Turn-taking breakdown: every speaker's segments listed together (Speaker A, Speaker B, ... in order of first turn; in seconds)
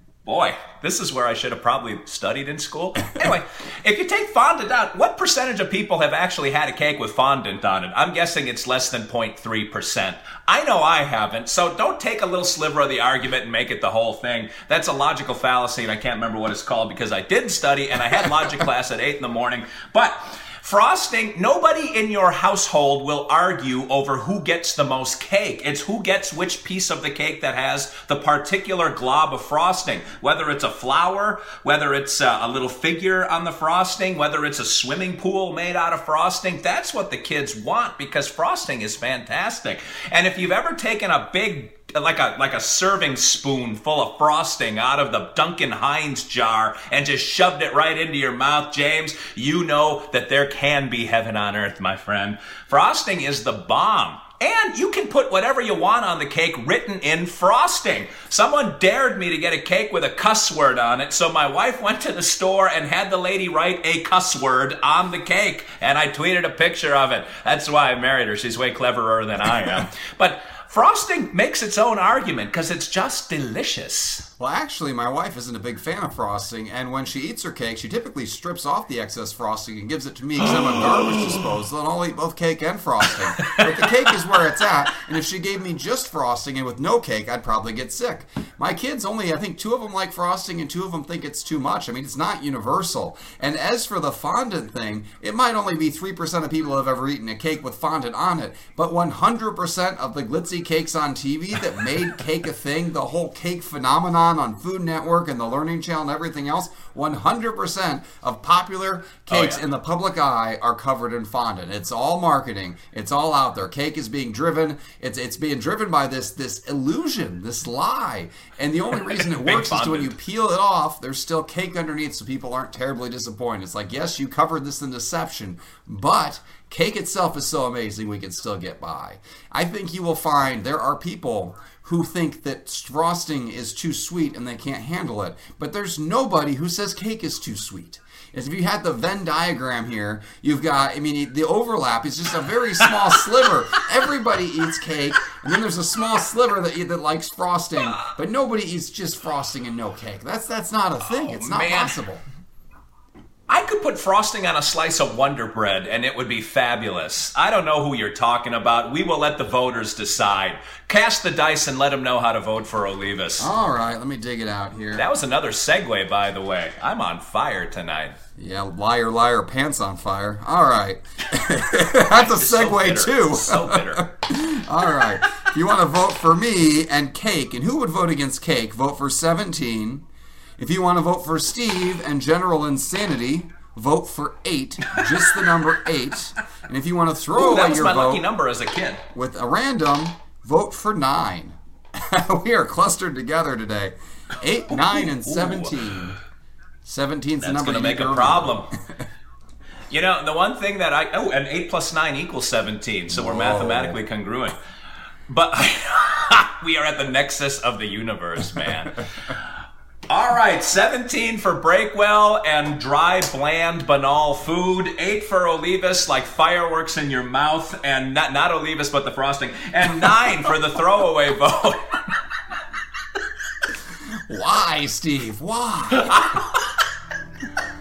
Speaker A: 0.2-74.3, 83.4-84.0, 109.3-109.6, 119.0-120.1, 151.0-151.9, 153.5-163.5, 164.9-168.2, 171.9-174.1, 185.2-185.6, 187.3-189.0, 194.7-196.1, 197.4-198.7, 199.9-204.6, 205.3-209.4, 210.1-222.0, 226.0-226.7
Speaker B: 74.4-152.2, 163.4-165.1, 168.4-180.0, 180.6-188.3, 189.1-191.6, 192.1-196.2, 196.8-198.6, 203.1-204.0, 224.3-226.2